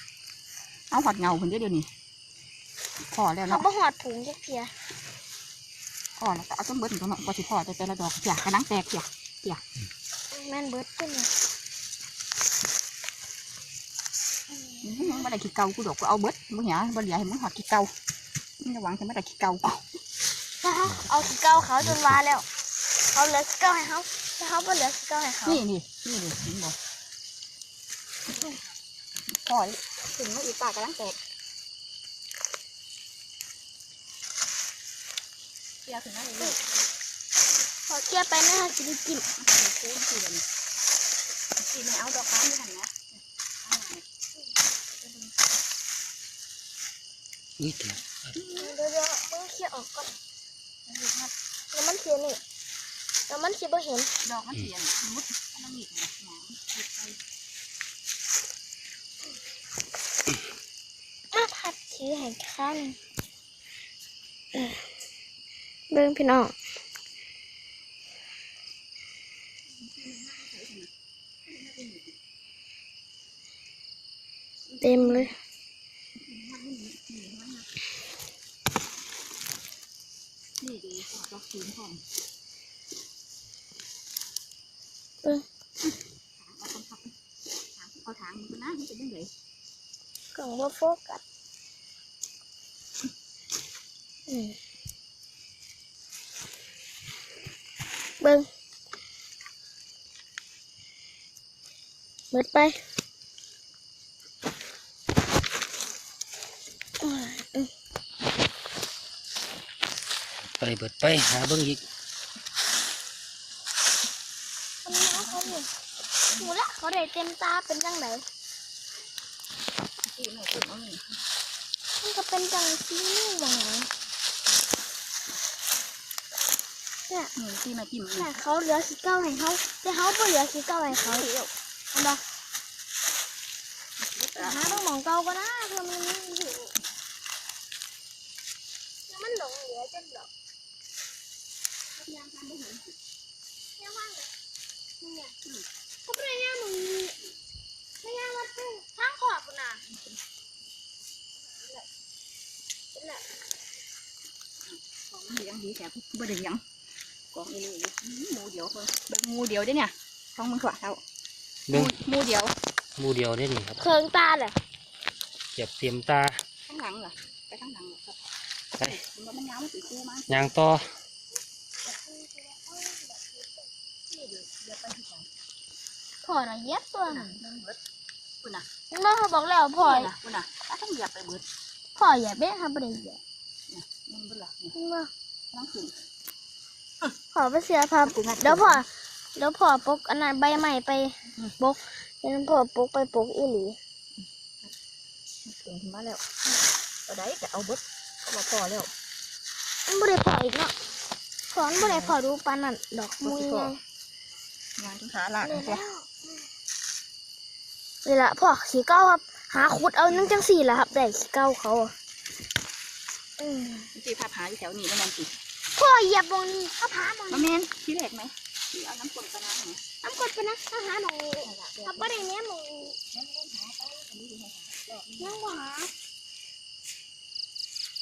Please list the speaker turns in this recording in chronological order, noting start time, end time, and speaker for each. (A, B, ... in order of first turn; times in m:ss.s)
0:00.9-0:01.9 A
0:03.1-0:03.6 A
0:03.4-0:04.7 B
0:06.2-0:09.6 A
0:10.3-0:11.3 B
0:14.5-0:15.3 B
0:14.8-0:17.9 A
0:18.6-0:19.8 A
0:20.6-0:22.4 B
0:20.9-0:22.2 C
0:23.1-0:25.6 B
0:25.4-0:26.8 A
0:29.4-0:31.2 A
0:35.8-0:36.6 A
0:37.9-0:39.2 B
0:39.4-0:40.4 A
0:41.6-0:44.0 A
0:47.6-0:48.3 C
0:48.3-0:48.8 A
0:48.6-0:50.1 B
0:50.9-0:51.3 A
0:51.7-0:52.4 B
0:53.3-0:54.1 B
0:54.2-0:57.2 A
1:01.3-1:03.0 B
1:05.9-1:06.5 B
1:09.8-1:10.9 A
1:11.5-1:12.1 A
1:14.7-1:15.3 A
1:14.8-1:15.3 B
1:16.2-1:17.7 A
1:20.6-1:22.0 A
1:26.4-1:27.1 A
1:27.8-1:29.3 A
1:30.3-1:31.2 B
1:34.3-1:34.6 B
1:38.2-1:38.5 B
1:42.3-1:42.8 B
1:47.0-1:47.7 B
1:50.5-1:51.8 C
1:54.8-1:55.7 B
1:54.9-1:55.5 A
1:56.3-1:58.2 B
2:00.0-2:01.0 A
2:02.0-2:03.9 B
2:07.4-2:08.3 A
2:08.1-2:11.2 B
2:10.9-2:11.5 A
2:11.9-2:12.2 B
2:14.0-2:14.8 A
2:14.4-2:16.7 B
2:19.1-2:20.3 B
2:22.0-2:22.9 A
2:23.8-2:24.3 B
2:25.0-2:25.3 B
2:26.0-2:27.2 B
2:28.0-2:29.8 B
2:32.9-2:33.2 B
2:34.6-2:36.6 A
2:37.3-2:41.0 A
2:41.7-2:41.9 C
2:41.7-2:42.5 A
2:43.0-2:43.8 C
2:43.8-2:44.5 B
2:45.5-2:46.4 C
2:46.7-2:48.2 A
2:48.8-2:50.4 A
2:50.3-2:50.9 C
2:51.8-2:53.6 B
2:54.1-2:55.3 A
2:56.2-2:57.4 B
2:57.1-2:57.8 A
2:58.9-3:00.1 B
2:59.8-3:01.4 A
3:02.0-3:03.2 B
3:03.7-3:04.7 A
3:04.7-3:05.1 B
3:05.5-3:05.9 A
3:07.3-3:13.8 B
3:08.0-3:08.8 A
3:15.4-3:16.2 A
3:17.1-3:18.9 A
3:19.8-3:20.7 B
3:21.5-3:23.8 B
3:21.8-3:22.1 A
3:23.2-3:23.8 A
3:24.8-3:25.8 A
3:25.4-3:26.1 B
3:28.0-3:31.9 B
3:33.4-3:33.9 B
3:33.9-3:35.3 A
3:35.7-3:37.5 B
3:37.3-3:39.9 A
3:40.0-3:43.0 B
3:41.4-3:42.2 A
3:43.1-3:45.4 A
3:45.2-3:45.9 B